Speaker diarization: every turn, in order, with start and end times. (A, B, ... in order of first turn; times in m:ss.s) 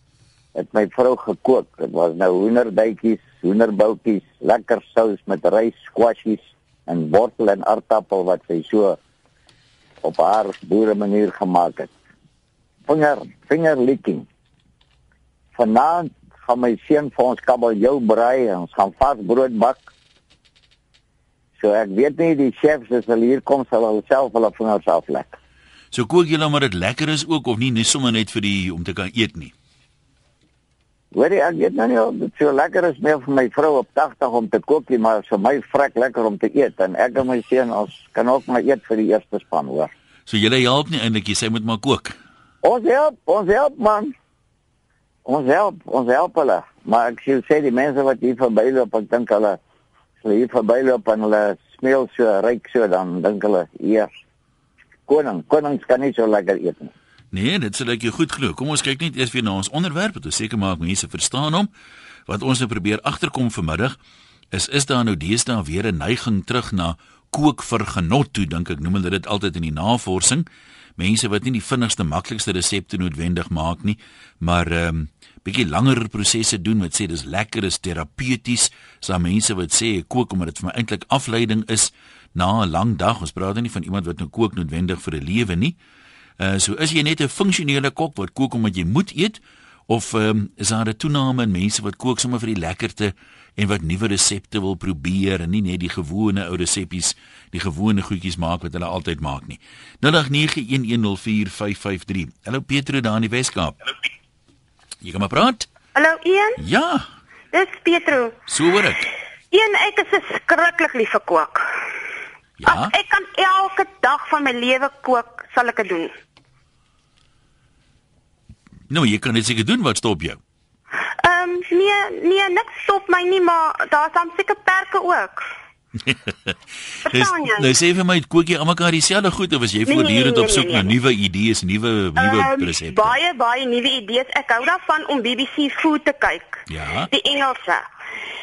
0:00.5-0:09.0 A
0:10.0-0:11.9 A
0:12.9-0:14.3 A
0:15.5-0:19.9 A
0:21.6-0:25.3 A
0:25.9-0:29.5 B
0:31.1-0:39.9 A
0:40.3-0:42.2 B
0:42.6-0:44.1 A
0:45.2-0:49.6 A
0:50.2-0:54.1 A
0:55.1-0:56.9 A
0:57.3-1:01.7 B
1:02.2-1:04.0 B
1:04.5-1:10.4 B
1:11.0-1:25.8 B
1:26.4-1:43.8 B
1:45.0-1:45.7 B
1:45.9-1:46.6 C
1:46.6-1:47.1 B
1:47.5-1:48.4 C
1:48.5-1:49.1 B
1:49.5-1:51.8 C
1:52.6-1:52.9 B
1:52.6-1:56.1 C
1:58.9-2:00.4 B
2:01.2-2:05.4 C
2:06.0-2:06.5 B
2:07.1-2:07.6 C
2:07.1-2:13.2 B
2:09.9-2:10.9 C
2:12.2-2:17.8 C
2:16.7-2:17.1 B